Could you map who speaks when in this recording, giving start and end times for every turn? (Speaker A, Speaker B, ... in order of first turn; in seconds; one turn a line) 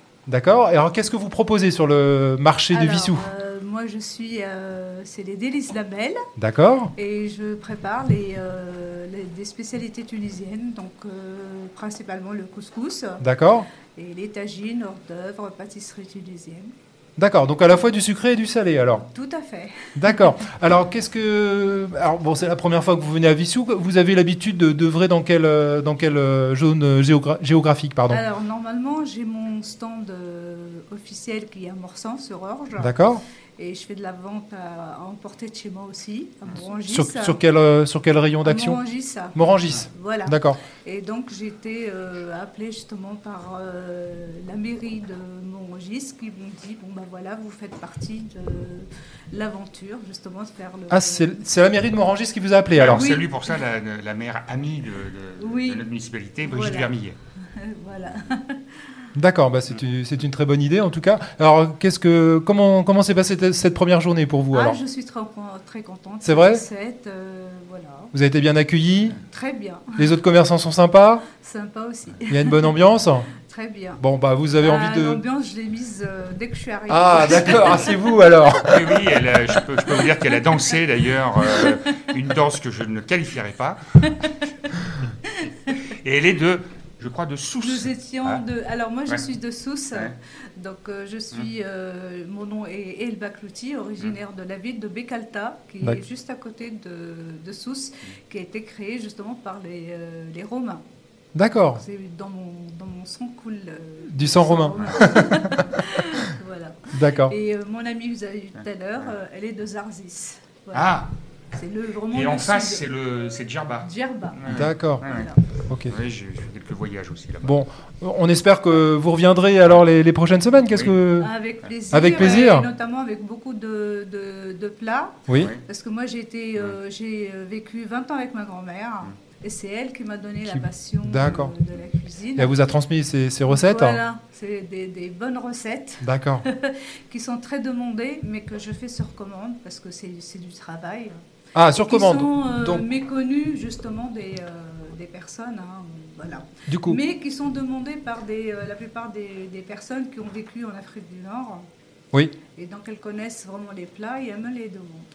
Speaker A: 0.3-3.2
Speaker B: 2.7-6.2
Speaker A: 6.4-6.9
Speaker B: 7.0-13.2
Speaker A: 13.2-13.7
Speaker B: 13.9-16.7
Speaker A: 17.2-19.0
Speaker B: 19.1-20.3
Speaker A: 19.9-28.2
Speaker B: 28.1-37.4
Speaker A: 32.8-33.2
Speaker A: 36.9-38.8
Speaker B: 38.4-51.4
Speaker A: 39.3-40.6
Speaker A: 50.9-53.2
Speaker C: 52.8-57.2
Speaker B: 52.8-53.6
Speaker B: 55.4-55.9
Speaker B: 56.4-56.9
Speaker B: 57.6-58.6
Speaker A: 59.1-64.8
Speaker B: 64.5-68.1
Speaker A: 66.2-66.6
Speaker A: 68.1-69.2
Speaker B: 69.3-70.0
Speaker A: 69.9-71.2
Speaker B: 71.3-72.8
Speaker A: 72.3-73.3
Speaker B: 73.4-74.0
Speaker A: 74.0-75.2
Speaker B: 74.6-78.1
Speaker A: 76.9-79.0
Speaker C: 77.3-77.7
Speaker C: 78.7-84.1
Speaker C: 86.0-88.4
Speaker B: 87.6-100.8
Speaker A: 101.3-101.8
Speaker B: 101.6-112.9
Speaker A: 104.1-105.6
Speaker A: 106.9-107.3
Speaker C: 110.7-111.1
Speaker C: 112.1-115.3
Speaker B: 113.8-115.4
Speaker A: 114.5-115.0
Speaker A: 115.7-115.9
Speaker C: 115.9-117.6
Speaker A: 117.4-121.3
Speaker B: 121.2-132.6
Speaker A: 121.9-122.7
Speaker A: 125.3-125.5
Speaker A: 130.5-131.5
Speaker A: 132.4-134.0
Speaker B: 133.4-141.2
Speaker A: 136.0-136.4
Speaker A: 141.5-142.8
Speaker B: 141.8-151.6
Speaker A: 146.7-147.0
Speaker B: 152.5-155.1